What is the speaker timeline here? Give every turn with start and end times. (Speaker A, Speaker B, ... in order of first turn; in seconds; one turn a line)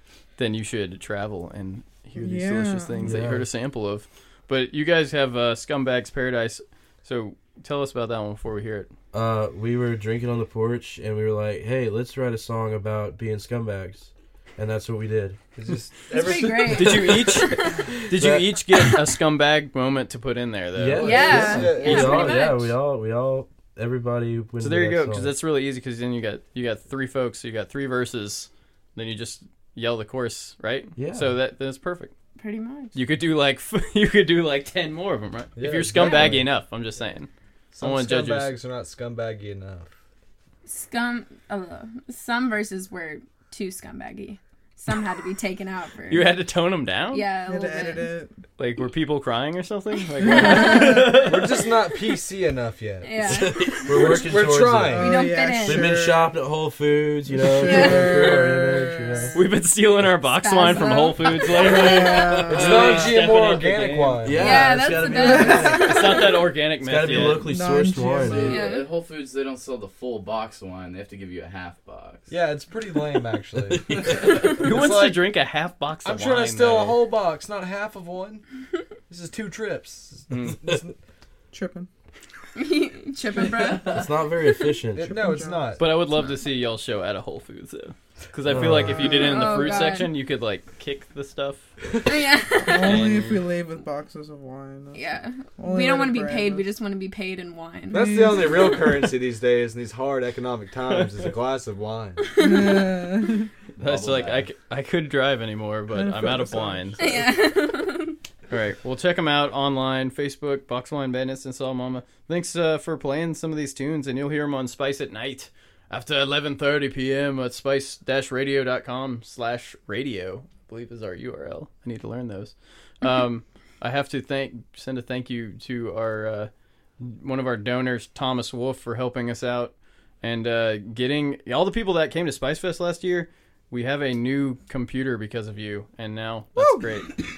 Speaker A: 0.4-8.9
Speaker B: 2.2-3.1
Speaker C: 3.0-3.5
Speaker C: 9.1-15.4
Speaker D: 15.6-17.3
Speaker E: 16.1-17.8
Speaker A: 16.5-22.4
Speaker C: 18.1-18.6
Speaker C: 20.8-25.4
Speaker D: 20.9-22.4
Speaker E: 21.0-22.7
Speaker A: 24.6-32.1
Speaker C: 31.0-31.4
Speaker E: 32.4-33.0
Speaker A: 33.0-38.5
Speaker D: 35.6-36.5
Speaker E: 36.1-36.4
Speaker D: 37.7-39.9
Speaker E: 40.6-46.4
Speaker A: 46.1-47.2
Speaker E: 47.1-48.1
Speaker B: 47.5-48.4
Speaker A: 48.6-51.7
Speaker E: 50.2-51.3
Speaker D: 50.9-55.2
Speaker E: 53.0-54.2
Speaker C: 53.3-55.0
Speaker E: 55.0-56.0
Speaker B: 55.0-56.3
Speaker C: 55.6-59.4
Speaker B: 57.4-59.4
Speaker E: 57.6-58.4
Speaker A: 59.3-64.3
Speaker E: 60.3-62.1
Speaker B: 61.5-62.9
Speaker C: 62.5-63.2
Speaker D: 62.5-64.6
Speaker C: 64.2-66.2
Speaker E: 64.3-66.4
Speaker B: 65.1-66.2
Speaker A: 65.8-67.5
Speaker C: 66.8-68.6
Speaker B: 67.4-68.7
Speaker F: 68.3-72.3
Speaker E: 68.5-68.9
Speaker D: 72.3-75.3
Speaker A: 74.4-77.0
Speaker D: 76.0-78.4
Speaker D: 79.1-80.9
Speaker A: 80.3-80.6
Speaker B: 81.5-81.9
Speaker E: 82.5-84.7
Speaker C: 83.8-85.4
Speaker D: 84.9-85.9
Speaker B: 85.1-85.6
Speaker A: 85.8-91.7
Speaker C: 88.5-89.1
Speaker E: 89.0-90.2
Speaker B: 89.4-89.9
Speaker E: 92.0-93.0
Speaker B: 92.6-95.0
Speaker A: 92.7-93.5
Speaker E: 94.9-98.3
Speaker B: 95.6-96.7
Speaker D: 97.9-102.2
Speaker B: 97.9-98.9
Speaker B: 102.4-103.5
Speaker E: 102.4-102.8
Speaker F: 103.8-104.5
Speaker A: 103.8-107.1
Speaker B: 105.9-107.2
Speaker E: 107.0-108.2
Speaker A: 108.5-137.2
Speaker B: 136.6-136.8